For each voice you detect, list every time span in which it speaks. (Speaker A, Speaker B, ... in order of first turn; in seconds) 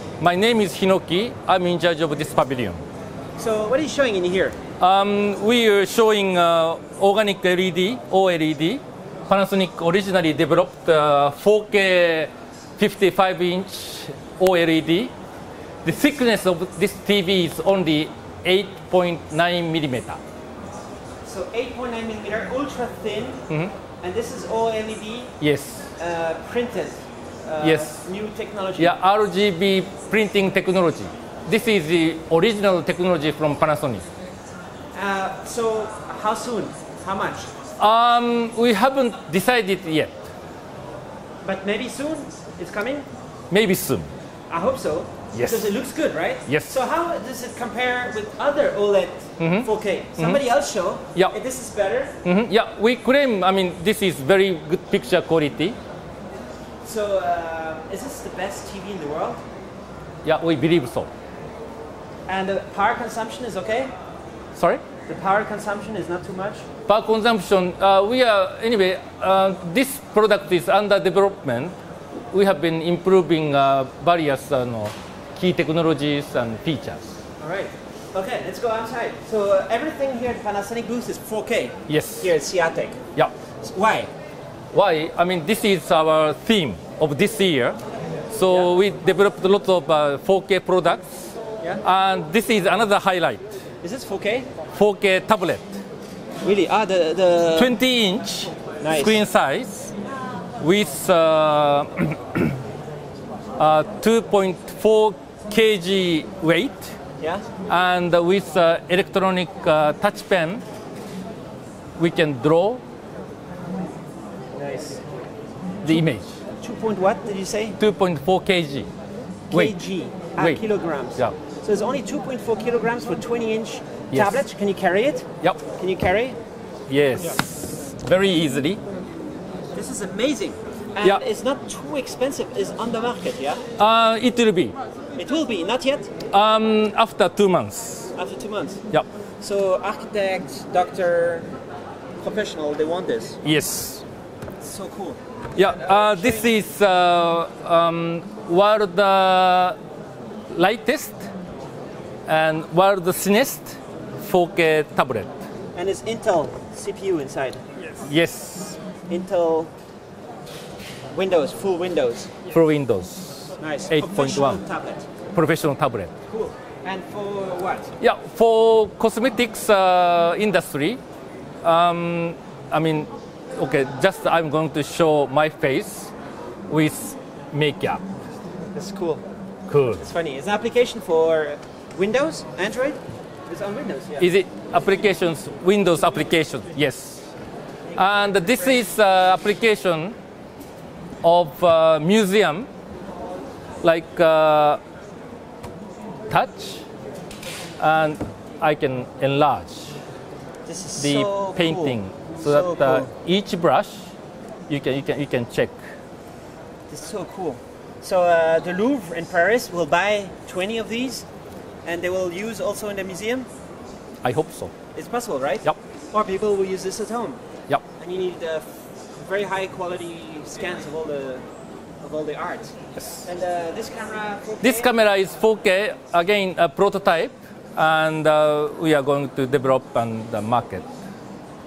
Speaker A: 0.2-2.8, 4.8-15.1, 15.8-20.2, 25.4-25.9, 27.6-28.0, 28.8-34.1, 37.8-40.1, 43.5-44.1, 45.3-45.7, 46.5-46.7, 49.4-50.4, 52.2-55.8, 60.2-61.1, 64.6-64.8, 66.9-71.8, 72.3-77.0, 81.9-82.3, 84.7-87.8, 88.3-91.3, 91.8-93.4, 94.7-95.8, 97.6-99.9, 100.6-102.6, 103.6-106.9, 107.7-110.6, 112.0-112.8, 115.8-116.3, 117.8-118.9, 119.5-119.8, 120.4-120.6, 124.1-124.4, 126.9-128.8, 133.8-134.8, 136.3-138.1, 143.4-144.0, 145.6-149.8, 150.5-151.3, 152.3-155.3, 158.0-158.8, 162.5-164.6, 165.3-166.1, 168.0-171.0, 171.6-176.1, 176.7-178.0, 179.7-180.0, 184.2-187.3, 187.9-190.2, 191.2-192.7, 193.8-194.8, 196.3-196.8, 197.8-200.0, 201.0-204.1, 204.7-205.8, 214.2-214.7, 224.6-230.9
Speaker B: 3.4-4.6, 21.2-23.4, 24.0-25.3, 26.0-28.9, 34.9-37.5, 41.4-43.1, 44.5-52.1, 56.8-59.4, 62.3-63.9, 65.1-66.7, 77.4-83.0, 83.6-84.1, 93.8-94.5, 96.4-97.7, 98.8-99.2, 107.2-107.5, 114.6-115.0, 116.6-117.8, 119.5-126.4, 129.7-133.6, 135.2-136.1, 138.2-138.8, 139.4-141.5, 142.2-143.4, 144.6-146.5, 155.8-157.6, 159.1-159.7, 161.1-162.3, 163.6-165.1, 166.3-167.9, 178.7-179.2, 180.0-184.3, 187.9-188.7, 200.7-203.1, 206.9-211.3, 211.8-213.5, 214.9-217.4, 218.0-221.5, 222.0-224.9